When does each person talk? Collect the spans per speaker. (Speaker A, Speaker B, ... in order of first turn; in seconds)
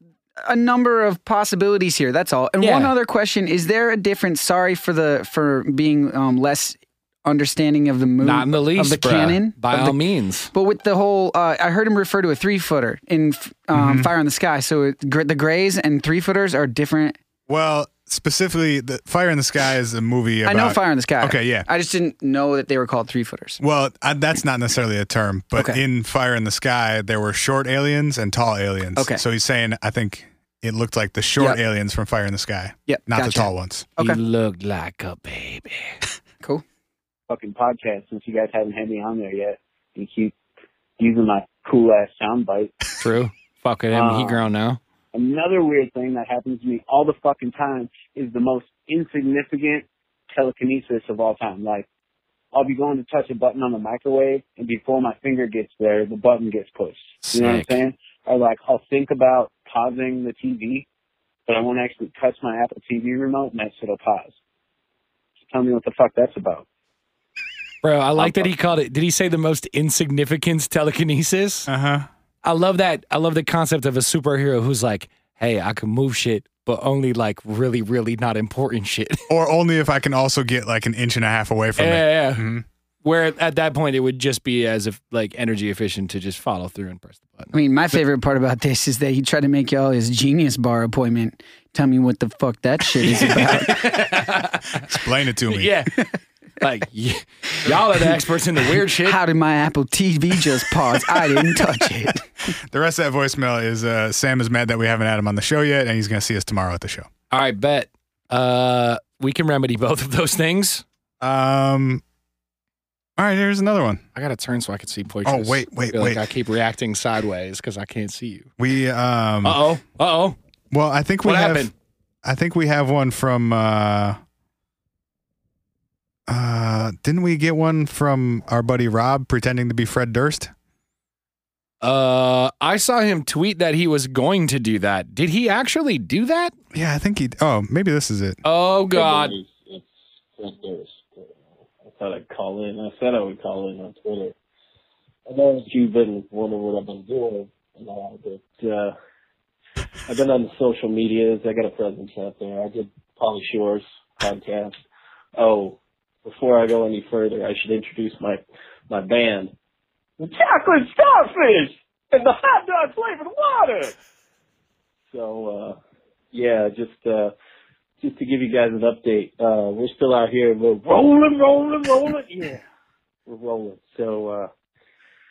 Speaker A: 0.4-10.0, 10.5-17.2, 20.5-23.6, 25.6-25.8, 29.0-29.2, 32.9-34.2, 87.5-93.8, 99.0-102.3
Speaker B: 2.6-2.9, 8.2-10.5, 34.0-36.0, 43.0-44.8, 57.2-57.7, 67.8-71.7, 72.4-79.3, 81.8-82.5, 83.0-87.5, 93.0-95.0, 95.5-96.0, 96.6-99.2, 107.3-110.8, 114.2-118.5, 119.4-120.4, 121.2-121.7, 131.8-136.5, 138.4-139.4
Speaker C: 13.7-14.1, 17.5-21.7, 23.6-33.9, 71.7-72.1, 79.3-82.7, 94.9-95.7, 102.6-107.1, 111.2-112.0, 113.2-114.0, 115.3-116.2, 118.6-119.6, 120.7-121.7, 122.2-124.2, 126.3-130.5, 136.7-138.4
Speaker D: 37.3-40.3, 41.0-42.7, 43.9-44.4, 45.1-51.9, 52.5-60.9, 61.5-64.3, 65.5-66.7, 68.2-68.5
Speaker E: 138.9-144.3, 145.3-148.9, 150.1-154.8, 155.3-159.5, 160.2-163.9, 165.1-165.8, 166.3-167.3, 168.0-172.6, 173.3-174.5